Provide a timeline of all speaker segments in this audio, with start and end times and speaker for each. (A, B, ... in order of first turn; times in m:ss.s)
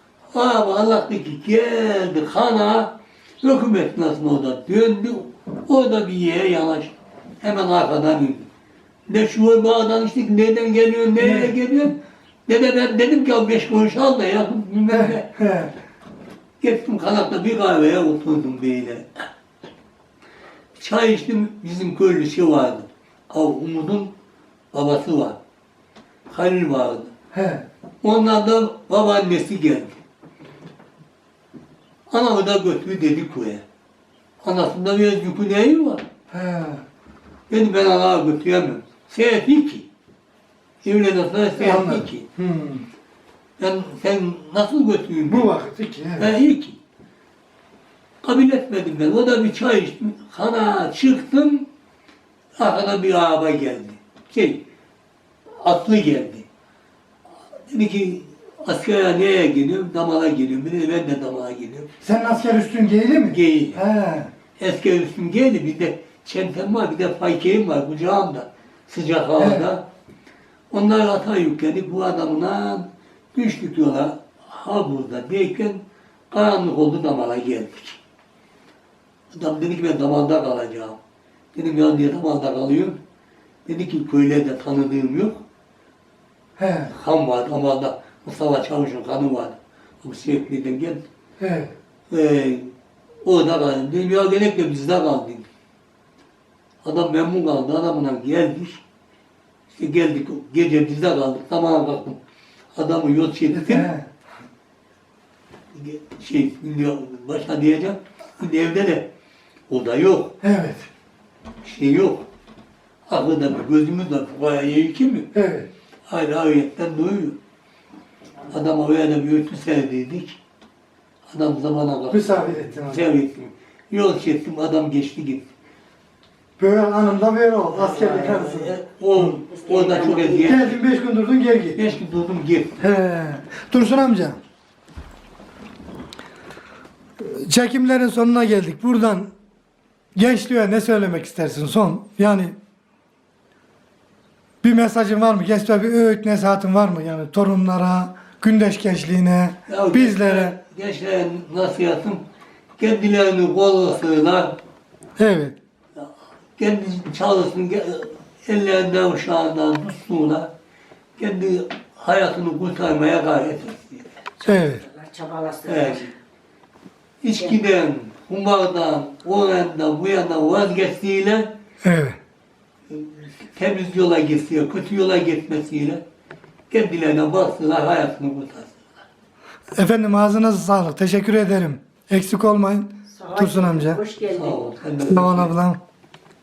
0:00.3-0:08.5 A
0:09.1-0:15.3 A
0:11.2-0:11.5 B
0:14.9-0:15.7 B
0:16.6-0:19.2 A
0:20.8-0:24.1 A
0:24.7-0:25.4 A
0:26.3-0:27.1 A
0:27.3-0:27.6 B
0:28.0-0:30.0 A
0:32.1-0:33.6 A
0:34.4-0:36.0 A
0:36.3-0:36.8 B
0:37.5-0:39.8 A
0:40.8-0:42.2 A
0:41.6-0:42.8 B
0:43.6-0:45.5 A
0:45.2-0:46.3 B
0:46.2-0:46.8 A
0:48.2-0:51.7 A
0:52.6-0:54.6 A
0:55.6-0:56.4 A
0:57.7-1:01.9 A
1:02.0-1:04.3 B
1:03.3-1:03.8 A
1:04.6-1:09.8 A
1:09.4-1:09.7 B
1:10.7-1:18.0 A
1:19.3-1:21.0 A
1:21.5-1:23.0 A
1:23.6-1:25.4 A
1:26.6-1:26.9 B
1:26.9-1:31.0 A
1:31.4-1:31.7 B
1:32.1-1:32.7 A
1:33.2-1:35.4 A
1:36.8-1:38.8 A
1:39.7-1:42.2 A
1:42.7-1:43.9 A
1:43.5-1:44.1 B
1:45.7-1:49.1 A
1:49.7-1:50.3 A
1:50.4-1:50.8 B
1:51.6-1:52.2 A
1:53.1-1:55.3 A
1:55.3-1:55.7 B
1:56.1-1:57.4 A
1:58.5-2:00.4 A
2:01.3-2:05.5 A
2:02.1-2:03.0 B
2:06.6-2:09.4 B
2:07.7-2:10.8 A
2:09.5-2:10.7 C
2:10.4-2:11.8 B
2:11.7-2:12.8 A
2:12.8-2:14.4 B
2:17.2-2:19.3 B
2:20.1-2:22.5 B
2:24.6-2:30.6 B
2:29.7-2:32.2 A
2:32.8-2:34.6 A
2:35.2-2:35.5 B
2:36.0-2:40.5 A
2:41.2-2:44.0 A
2:44.4-2:46.1 C
2:44.4-2:44.8 B
2:45.6-2:46.1 A
2:47.2-2:51.5 A
2:51.8-2:52.2 B
2:52.9-2:56.0 A
2:56.7-2:58.8 A
2:59.8-3:04.0 B
3:03.1-3:04.8 C
3:04.3-3:05.5 A
3:05.1-3:05.8 B